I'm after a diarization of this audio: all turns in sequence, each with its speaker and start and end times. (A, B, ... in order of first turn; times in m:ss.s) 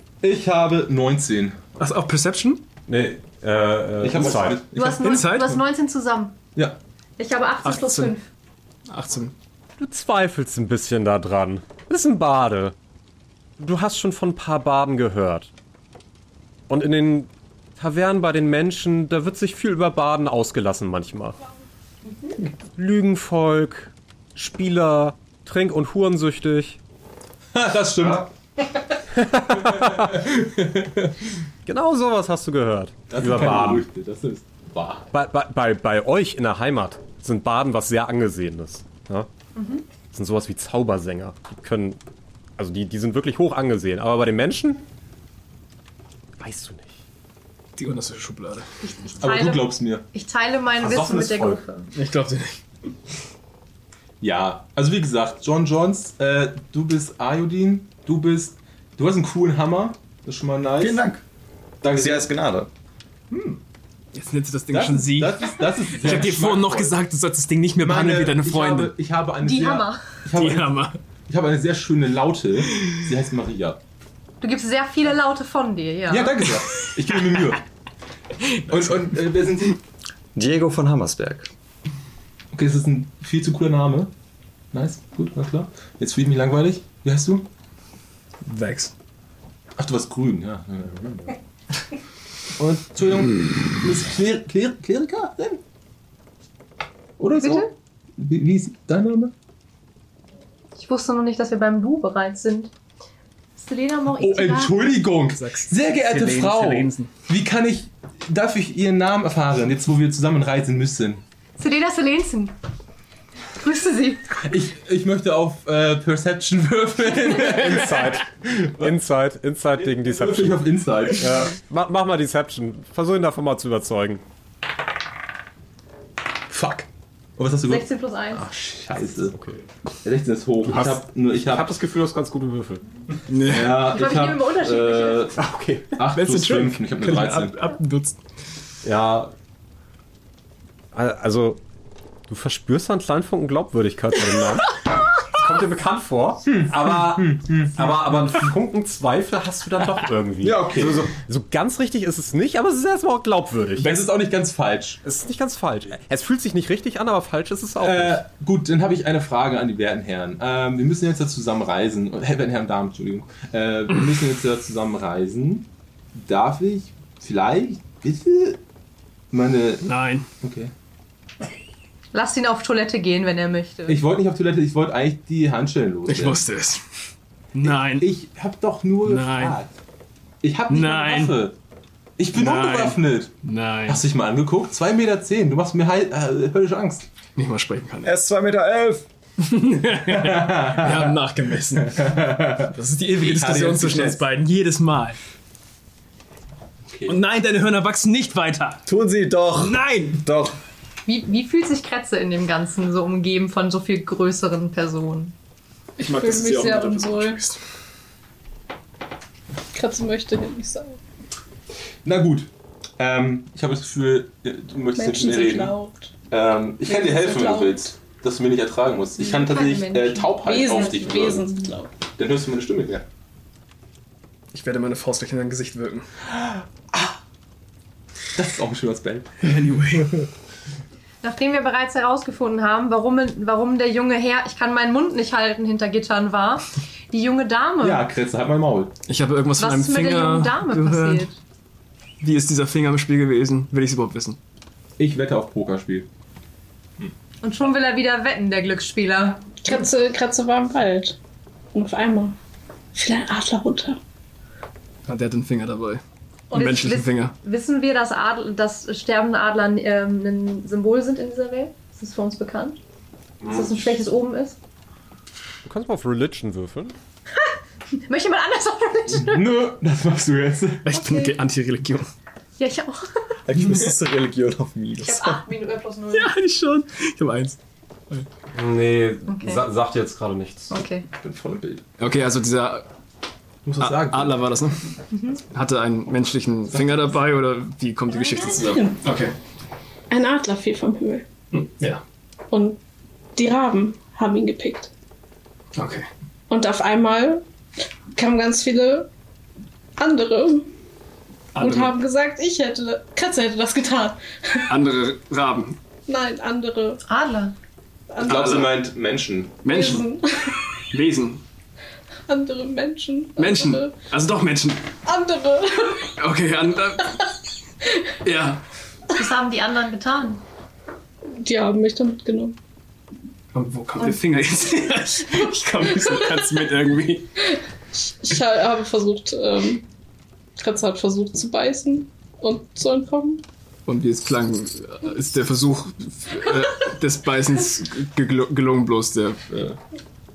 0:00.2-0:01.6 A
0:01.8-0:02.6 B
0:02.9-0:04.7 C
0:04.0-0:05.3 A
0:04.7-0:06.4 D
0:04.8-0:05.6 B
0:07.2-0:08.3 D
0:07.6-0:08.1 B
0:08.9-0:09.4 B
0:09.8-0:12.8 C
0:13.6-0:15.5 C
0:16.7-0:21.4 C
0:22.6-0:26.8 C
0:27.5-0:28.3 A
0:29.2-0:30.1 C
0:29.5-0:31.1 A
0:31.7-0:33.9 C
0:33.1-0:35.1 A
0:35.1-0:39.3 C
0:39.6-0:39.9 D
0:40.0-0:42.0 C
0:42.6-0:44.8 C
0:46.4-0:46.9 C
0:47.8-0:48.7 B
0:48.8-0:51.9 D
0:49.2-0:50.0 A
0:50.8-0:51.6 C
0:51.9-0:52.6 B
0:54.2-1:01.0 A
1:00.8-1:01.2 E
1:01.8-1:02.3 A
1:01.9-1:02.7 E
1:03.3-1:03.6 A
1:04.1-1:08.9 B
1:04.7-1:07.0 A
1:07.8-1:13.8 A
1:09.4-1:10.2 D
1:10.3-1:11.0 B
1:14.4-1:16.4 D
1:16.1-1:17.6 A
1:18.7-1:19.0 B
1:18.7-1:19.8 A
1:20.4-1:21.5 E
1:22.5-1:24.1 A
1:24.7-1:27.5 A
1:28.4-1:28.9 B
1:29.8-1:31.3 A
1:32.6-1:35.6 A
1:37.2-1:39.3 A
1:37.4-1:37.7 D
1:40.8-1:42.7 D
1:43.6-1:44.8 D
1:44.2-1:51.2 A
1:45.3-1:47.1 B
1:51.6-1:52.6 D
1:53.6-1:54.4 D
1:54.4-1:58.9 A
1:57.5-2:04.2 C
2:00.0-2:01.5 A
2:06.5-2:07.9 A
2:07.7-2:08.4 D
2:08.4-2:08.7 C
2:08.6-2:09.4 A
2:09.2-2:09.6 C
2:10.0-2:11.8 A
2:10.6-2:12.8 C
2:13.3-2:13.9 B
2:13.5-2:15.4 A
2:13.9-2:15.3 D
2:15.4-2:16.0 C
2:16.0-2:17.6 A
2:16.0-2:18.2 B
2:18.8-2:19.3 C
2:20.9-2:21.6 C
2:22.3-2:24.8 C
2:25.3-2:34.0 C
2:26.5-2:28.5 A
2:30.4-2:31.2 A
2:33.8-2:35.0 A
2:35.0-2:38.2 C
2:37.8-2:48.6 A
2:49.3-2:49.9 A
2:49.8-2:50.3 B
2:50.4-2:50.7 A
2:52.1-2:54.0 D
2:53.9-2:56.5 A
2:56.1-2:56.8 B
2:57.5-2:58.1 B
2:57.6-2:59.7 A
2:59.0-2:59.6 B
3:00.4-3:01.6 A
3:00.7-3:01.4 B
3:02.2-3:03.3 A
3:02.3-3:04.0 B
3:03.9-3:07.1 A
3:07.4-3:08.2 B
3:08.0-3:09.1 E
3:09.4-3:12.1 B
3:10.0-3:11.2 A
3:11.8-3:14.2 A
3:12.7-3:15.2 B
3:16.9-3:17.2 A
3:17.1-3:18.9 B
3:18.9-3:20.6 E
3:19.5-3:20.2 B
3:21.1-3:25.4 D
3:26.0-3:27.4 F
3:26.0-3:27.6 B
3:26.2-3:27.3 E
3:29.7-3:31.0 F
3:32.0-3:35.8 A
3:35.0-3:36.1 F
3:36.3-3:41.5 A
3:36.9-3:37.9 F
3:39.2-3:41.1 D
3:40.4-3:41.9 F
3:42.2-3:43.1 A
3:44.5-3:46.1 B
3:48.4-3:50.2 A
3:49.4-3:50.1 B
3:51.2-3:58.1 D
3:57.8-3:59.0 A
3:59.1-4:01.3 B
3:59.6-4:01.4 D
4:02.2-4:04.4 B
4:05.0-4:06.1 A
4:07.4-4:09.5 D
4:09.6-4:11.2 F
4:11.7-4:12.4 F
4:12.9-4:14.0 F
4:15.1-4:16.0 B
4:16.5-4:17.4 B
4:16.6-4:22.8 D
4:23.4-4:24.6 D
4:25.6-4:27.0 C
4:28.1-4:29.5 D
4:29.1-4:30.9 A
4:30.9-4:32.1 B
4:30.9-4:31.4 D
4:32.6-4:33.1 D
4:33.5-4:35.4 E
4:35.0-4:36.3 D
4:36.1-4:37.6 B
4:38.5-4:40.7 C
4:39.3-4:39.6 D
4:40.7-4:41.1 D
4:41.2-4:41.8 A
4:42.0-4:42.9 B
4:43.6-4:44.5 A
4:43.8-4:44.8 B
4:45.4-4:49.4 B
4:46.7-4:47.2 A
4:48.4-4:49.0 F
4:50.1-4:51.3 F
4:51.5-4:52.0 B
4:52.5-4:52.8 F
4:53.4-4:54.9 F
4:55.8-4:56.1 B
4:56.5-4:57.4 F
4:58.1-4:59.1 F
5:00.0-5:00.7 F
5:01.6-5:02.0 B
5:01.6-5:04.7 F
5:04.7-5:05.8 B
5:06.1-5:07.0 F
5:07.0-5:07.5 D
5:08.1-5:08.7 F
5:08.2-5:09.6 A
5:08.3-5:08.7 B
5:09.6-5:10.1 B
5:09.6-5:10.6 F
5:10.9-5:11.4 B
5:12.3-5:14.0 F
5:13.4-5:14.9 B
5:15.0-5:16.1 F
5:16.2-5:17.1 B
5:18.2-5:18.6 B
5:19.1-5:20.4 D
5:21.3-5:22.6 F
5:23.5-5:27.3 B
5:28.0-5:29.9 F
5:30.6-5:33.4 F
5:33.9-5:39.8 B